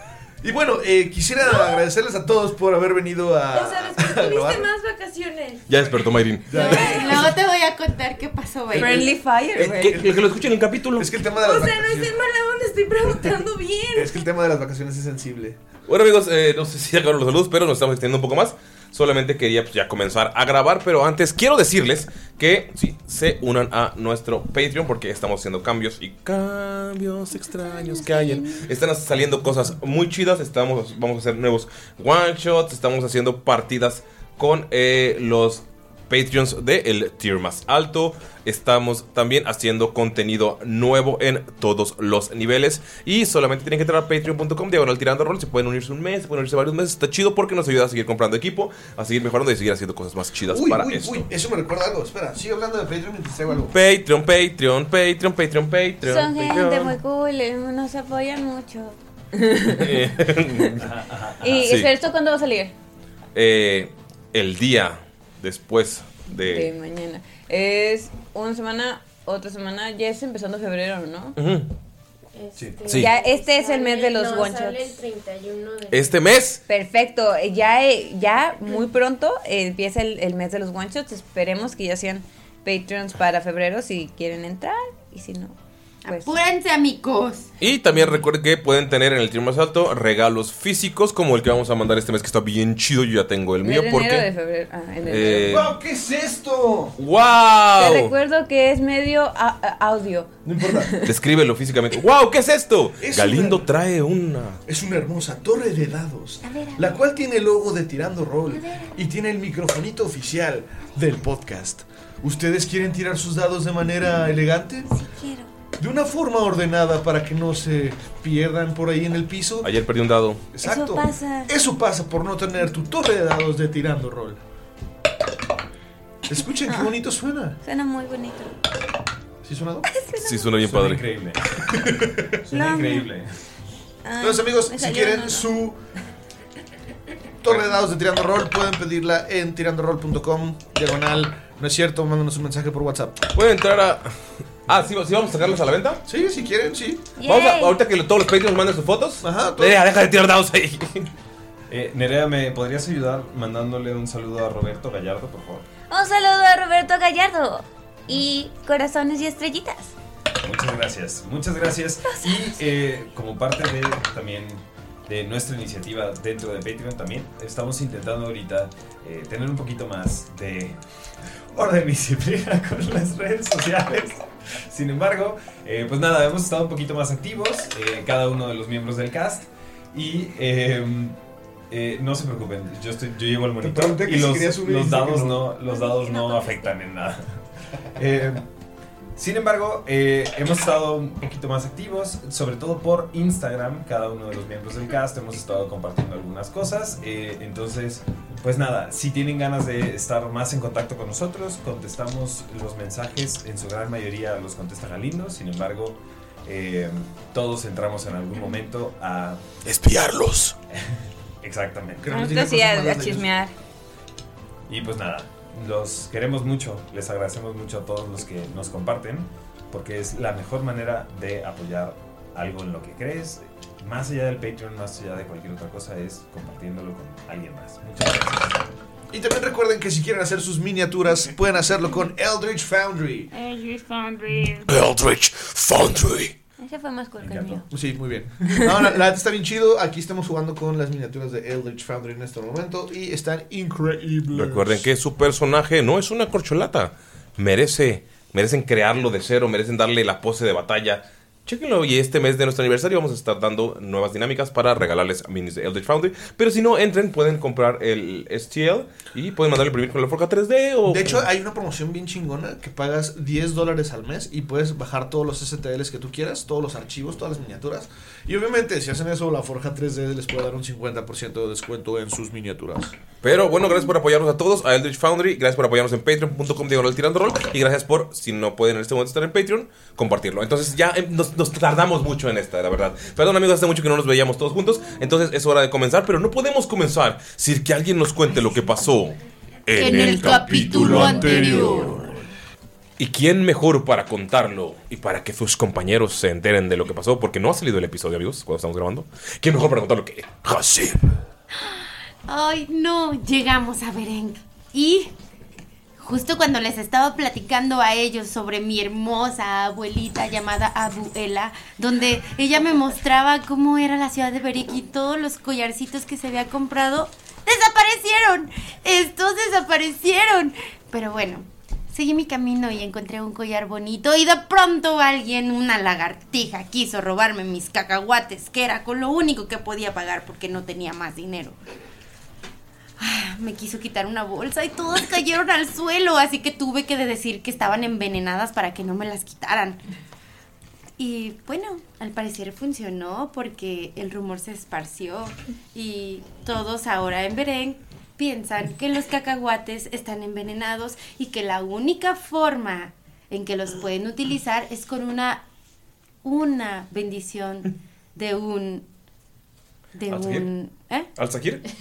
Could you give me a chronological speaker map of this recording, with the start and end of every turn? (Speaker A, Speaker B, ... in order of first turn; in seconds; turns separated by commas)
Speaker A: 0.4-4.7, Speaker B: 1.4-1.8, Speaker B: 3.5-5.7, Speaker C: 5.7-6.8, Speaker A: 6.5-7.4, Speaker D: 6.5-9.1, Speaker B: 6.6-7.0, Speaker E: 8.7-10.0, Speaker C: 9.6-11.1, Speaker A: 9.6-10.3, Speaker A: 11.0-12.1, Speaker B: 11.3-14.2, Speaker A: 13.9-15.6, Speaker C: 15.9-51.3, Speaker E: 27.6-28.6, Speaker A: 50.5-53.8, Speaker C: 53.7-57.0, Speaker E: 56.0-60.6, Speaker C: 59.7-60.8, Speaker F: 60.8-61.8, Speaker E: 61.4-62.7, Speaker C: 61.6-61.9, Speaker C: 63.4-66.7, Speaker E: 66.3-71.4, Speaker C: 71.4-71.7, Speaker B: 72.3-76.2, Speaker F: 72.6-72.9, Speaker E: 72.9-75.0, Speaker C: 75.9-76.6, Speaker E: 76.7-85.5, Speaker E: 86.1-86.3, Speaker D: 86.1-87.5, Speaker C: 87.6-94.3, Speaker E: 93.6-95.6, Speaker C: 95.1-95.7, Speaker A: 95.5-97.0, Speaker C: 97.0-98.1, Speaker E: 97.8-101.1, Speaker A: 100.5-101.0, Speaker C: 101.0-104.6, Speaker A: 103.0-103.7, Speaker A: 104.7-114.9, Speaker E: 106.5-106.8, Speaker E: 115.0-115.5, Speaker A: 115.8-119.7, Speaker C: 119.6-120.5, Speaker A: 120.5-124.4, Speaker E: 120.6-121.5, Speaker A: 126.3-127.6, Speaker E: 127.6-128.6, Speaker A: 129.4-129.9, Speaker E: 129.9-130.5, Speaker C: 130.2-131.0, Speaker F: 130.6-131.4, Speaker F: 132.3-133.3, Speaker E: 132.5-133.1, Speaker E: 134.1-135.5, Speaker A: 134.2-135.8, Speaker A: 137.4-143.2, Speaker C: 143.3-144.1, Speaker C: 144.7-146.0, Speaker A: 146.1-147.1, Speaker E: 147.2-147.8, Speaker C: 147.2-151.1, Speaker A: 149.2-149.8, Speaker F: 151.7-155.7, Speaker E: 155.9-159.9, Speaker F: 160.4-170.8, Speaker F: 171.5-181.2, Speaker F: 181.7-187.4, Speaker A: 183.6-185.5, Speaker E: 185.9-186.7, Speaker F: 187.9-188.5, Speaker F: 189.2-209.4, Speaker C: 209.7-210.6, Speaker F: 210.7-212.2, Speaker A: 212.0-213.3, Speaker E: 212.1-213.5, Speaker F: 214.7-228.7, Speaker A: 229.1-233.3, Speaker E: 233.4-234.6, Speaker C: 234.7-236.3, Speaker E: 236.6-237.7, Speaker F: 237.2-237.7, Speaker A: 237.7-244.8, Speaker C: 244.3-261.3, Speaker A: 260.9-272.9, Speaker C: 273.2-292.1, Speaker D: 289.8-291.9, Speaker A: 290.6-291.9, Speaker C: 293.0-301.1, Speaker D: 301.5-305.1, Speaker D: 306.0-331.6, Speaker D: 333.0-339.8, Speaker D: 341.0-355.4, Speaker D: 356.2-358.9, Speaker D: 359.9-361.1, Speaker C: 360.1-360.5, Speaker C: 361.2-361.6